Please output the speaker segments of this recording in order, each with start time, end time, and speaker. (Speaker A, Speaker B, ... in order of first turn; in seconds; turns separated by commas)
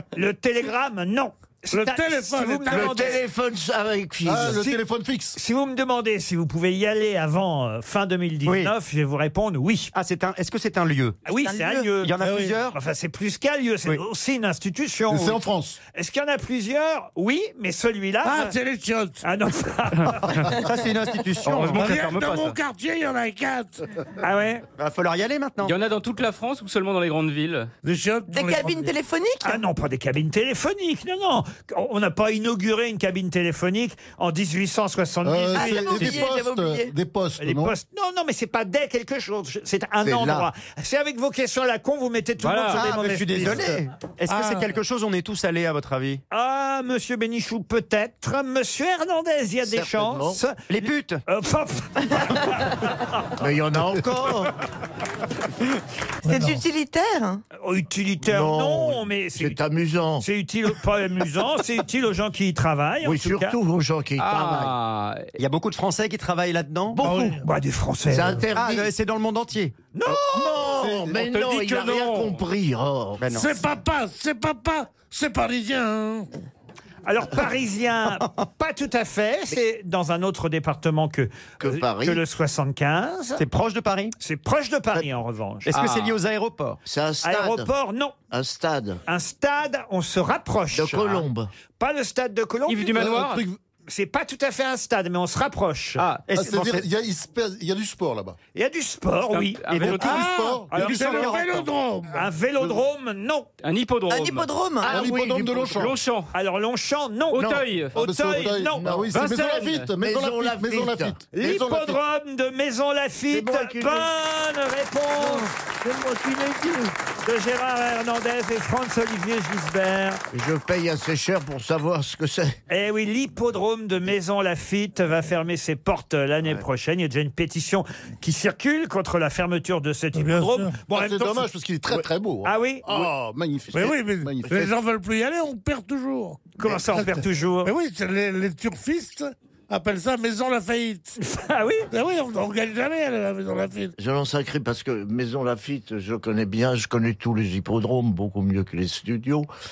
Speaker A: 0.1-3.2, Speaker B: 1.7-3.2, Speaker C: 2.7-4.6, Speaker D: 4.2-5.4, Speaker A: 4.5-4.8, Speaker A: 5.3-9.9, Speaker E: 8.4-8.7, Speaker E: 9.9-11.2, Speaker A: 11.3-15.4, Speaker F: 11.3-11.9, Speaker E: 12.0-12.8, Speaker B: 12.2-12.6, Speaker D: 15.1-15.8, Speaker A: 15.9-18.6, Speaker B: 18.2-19.2, Speaker A: 19.2-20.4, Speaker E: 20.3-22.4, Speaker B: 21.4-23.9, Speaker G: 21.5-22.6, Speaker A: 24.2-24.6, Speaker E: 24.8-25.8, Speaker G: 25.6-27.7, Speaker B: 27.8-28.9, Speaker F: 28.3-29.6, Speaker A: 29.4-36.3, Speaker D: 35.2-37.8, Speaker F: 35.5-36.9, Speaker A: 37.4-43.8, Speaker C: 40.0-40.5, Speaker G: 42.4-42.8, Speaker E: 42.6-46.2, Speaker B: 44.3-44.7, Speaker A: 46.3-50.6, Speaker C: 49.6-50.4, Speaker E: 50.7-51.2, Speaker A: 51.3-53.1, Speaker C: 53.4-54.5, Speaker B: 56.2-56.6, Speaker F: 56.3-57.4, Speaker A: 57.5-59.6, Speaker C: 58.3-60.2, Speaker A: 60.2-63.6, Speaker C: 63.0-64.7, Speaker G: 64.2-65.3, Speaker E: 65.4-67.1, Speaker C: 67.0-67.4, Speaker B: 67.0-67.5, Speaker A: 67.4-68.5, Speaker C: 68.1-68.9, Speaker E: 68.5-69.7, Speaker A: 69.9-70.6, Speaker C: 70.1-73.3, Speaker D: 70.7-71.2, Speaker G: 71.1-72.4, Speaker E: 73.2-73.5, Speaker B: 73.3-76.3, Speaker A: 77.1-83.4, Speaker C: 81.6-82.2, Speaker E: 83.4-84.2, Speaker A: 84.2-85.7, Speaker E: 85.7-86.8, Speaker G: 85.7-86.2, Speaker C: 86.8-87.7, Speaker A: 87.2-88.2, Speaker C: 88.3-89.0, Speaker A: 89.1-91.3, Speaker C: 90.7-91.5, Speaker A: 91.8-93.2, Speaker G: 92.7-93.4, Speaker D: 93.0-93.6, Speaker A: 93.9-96.0, Speaker G: 96.0-96.2, Speaker E: 96.3-96.9, Speaker D: 96.3-98.4, Speaker A: 98.5-99.6, Speaker G: 99.3-100.3, Speaker E: 99.7-100.1, Speaker D: 99.8-100.7, Speaker B: 100.0-102.3, Speaker A: 100.7-101.4, Speaker E: 100.7-101.7, Speaker A: 102.1-103.5, Speaker G: 103.6-104.5, Speaker F: 104.1-105.0, Speaker D: 104.8-106.0, Speaker C: 104.8-105.9, Speaker G: 105.8-106.3, Speaker A: 106.3-108.8, Speaker G: 107.3-108.0, Speaker C: 107.3-107.7, Speaker D: 107.9-112.0, Speaker C: 108.8-109.1, Speaker G: 109.1-109.9, Speaker C: 110.0-111.2, Speaker A: 111.3-115.5, Speaker C: 113.3-114.1, Speaker C: 115.2-116.2, Speaker A: 117.2-120.2, Speaker C: 120.3-122.6, Speaker A: 122.7-131.5, Speaker B: 130.1-130.8, Speaker D: 130.9-134.7, Speaker A: 132.4-132.9, Speaker B: 133.7-141.2, Speaker A: 136.6-137.7, Speaker A: 141.2-141.9, Speaker B: 141.9-143.9, Speaker C: 144.0-149.5